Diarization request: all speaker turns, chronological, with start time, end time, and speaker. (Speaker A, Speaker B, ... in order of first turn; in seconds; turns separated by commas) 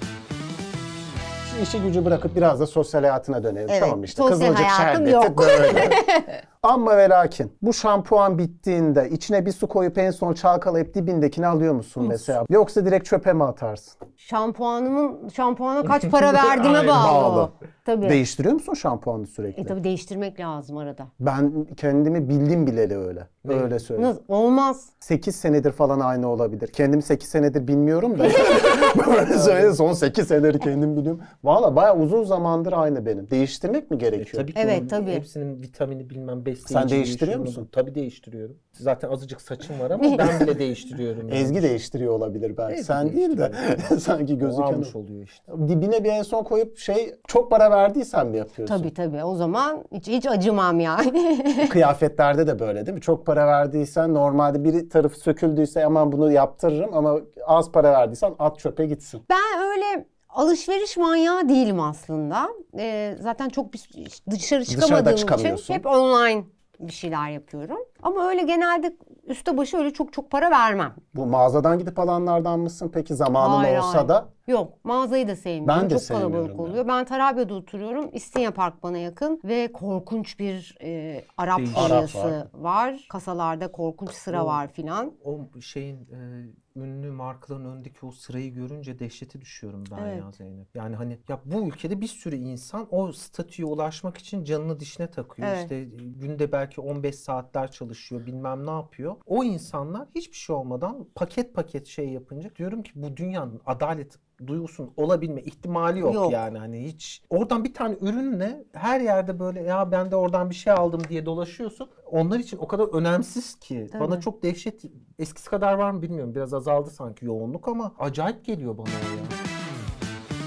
Speaker A: 1.4-6.0, Speaker B: 3.7-6.3, Speaker A: 6.6-14.0, Speaker B: 12.0-12.3, Speaker B: 14.2-18.2, Speaker C: 16.0-17.1, Speaker A: 16.9-17.5, Speaker A: 18.0-19.8, Speaker B: 19.6-21.1, Speaker A: 21.2-24.1, Speaker C: 23.4-23.7, Speaker B: 24.0-24.9, Speaker A: 25.0-34.5, Speaker B: 28.3-28.9, Speaker C: 28.4-29.8, Speaker C: 34.2-41.7, Speaker B: 34.6-35.2, Speaker A: 36.7-37.7, Speaker B: 40.0-40.2, Speaker A: 41.3-44.9, Speaker C: 42.7-43.8, Speaker C: 44.4-45.5, Speaker A: 45.5-48.9, Speaker B: 48.7-51.8, Speaker A: 51.6-59.2, Speaker B: 59.3-71.0, Speaker A: 64.7-65.8, Speaker A: 71.1-74.3, Speaker B: 73.4-85.1, Speaker A: 75.7-76.8, Speaker C: 81.6-82.1, Speaker A: 81.7-82.4, Speaker C: 84.3-84.6, Speaker C: 85.2-119.4, Speaker B: 90.0-90.3, Speaker B: 95.4-95.7, Speaker B: 106.0-106.4, Speaker B: 113.9-114.2